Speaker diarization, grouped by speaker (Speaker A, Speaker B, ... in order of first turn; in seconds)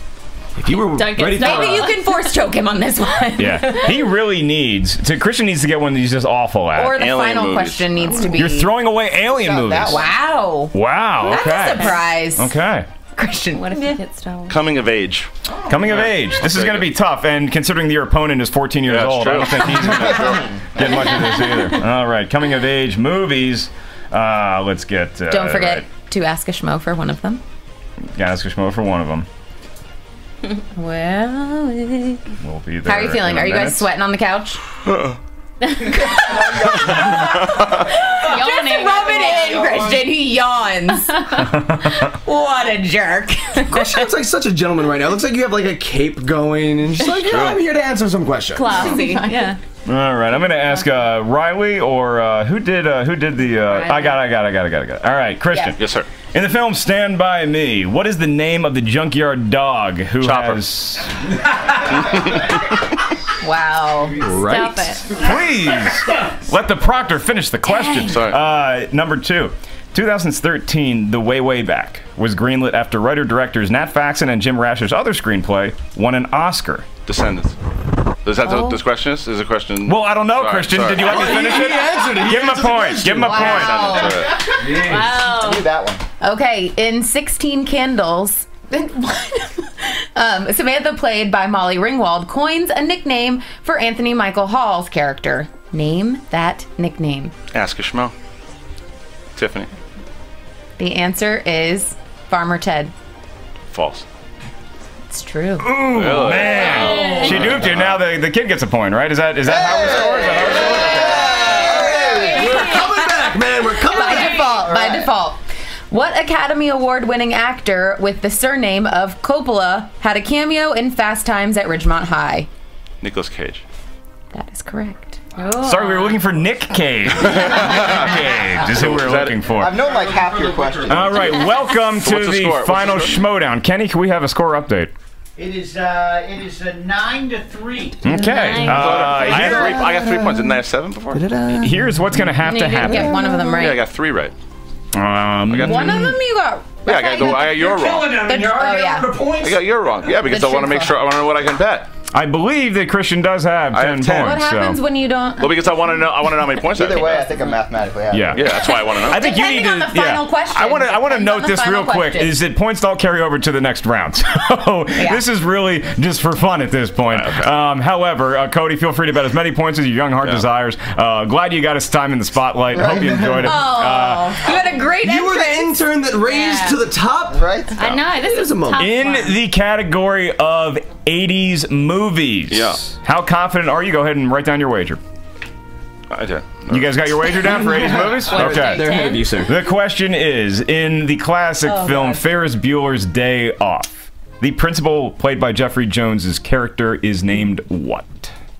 Speaker A: 0.6-1.9, 43.7-49.0, 81.0-83.5, 84.6-85.1, 111.7-114.4, 139.3-140.6, 141.1-142.2, 142.8-143.5, 175.0-177.5, 178.1-178.9, 187.5-189.6
Speaker B: 0.7-2.2, 11.3-12.0, 13.5-14.6, 38.1-39.8, 48.5-49.6, 64.2-65.1, 84.6-85.7, 106.7-107.3, 138.1-139.0, 176.2-176.8, 177.7-179.4, 188.3-189.4
Speaker C: 1.3-4.0, 6.7-8.7, 9.8-12.5, 13.1-14.0, 25.3-27.4, 30.5-32.2, 32.8-34.6, 35.8-44.1, 48.7-49.5, 63.4-64.2, 67.7-68.2, 78.4-78.8, 83.2-84.4, 86.2-97.3, 100.8-102.9, 105.1-105.7, 110.8-113.1, 113.8-122.5, 124.3-126.2, 142.4-143.9, 145.6-149.2, 150.1-151.0, 154.1-155.8, 158.7-162.4, 164.9-165.2, 173.4-175.8, 188.3-189.0, 191.6-192.2
Speaker D: 3.4-7.0, 8.3-10.0, 10.7-12.9, 15.7-25.8, 28.1-29.3, 32.4-33.9, 41.6-42.0, 49.9-61.1, 64.2-76.9, 79.8-83.9, 105.6-111.5, 125.6-129.8, 130.8-134.9, 138.0-139.9, 141.6-143.2, 144.9-146.1, 152.1-154.8, 158.1-174.4, 178.8-185.0, 186.7-198.3
Speaker E: 6.9-8.2, 14.5-16.9, 18.9-20.3, 36.7-37.7, 47.1-47.6, 55.8-56.2, 60.2-60.6, 62.0-62.5, 68.1-68.4, 77.0-77.5, 78.2-81.8, 83.4-84.4, 97.5-98.1, 99.3-99.7, 103.7-104.0, 105.9-108.0, 123.0-123.6, 127.3-128.1, 128.6-129.4, 131.1-133.2, 138.6-141.6, 143.4-144.3, 145.5-146.1, 146.8-148.3, 149.4-151.9, 153.7-154.4, 155.4-157.4, 158.3-159.3, 167.1-167.5, 182.5-182.8, 186.1-187.6
Speaker F: 9.3-10.0, 19.8-21.1, 36.1-37.0, 85.0-86.0, 109.4-112.7, 114.2-115.1, 129.5-131.2, 156.7-158.8, 172.7-173.4, 177.3-178.0
Speaker G: 130.1-130.7, 135.4-138.0, 147.8-149.5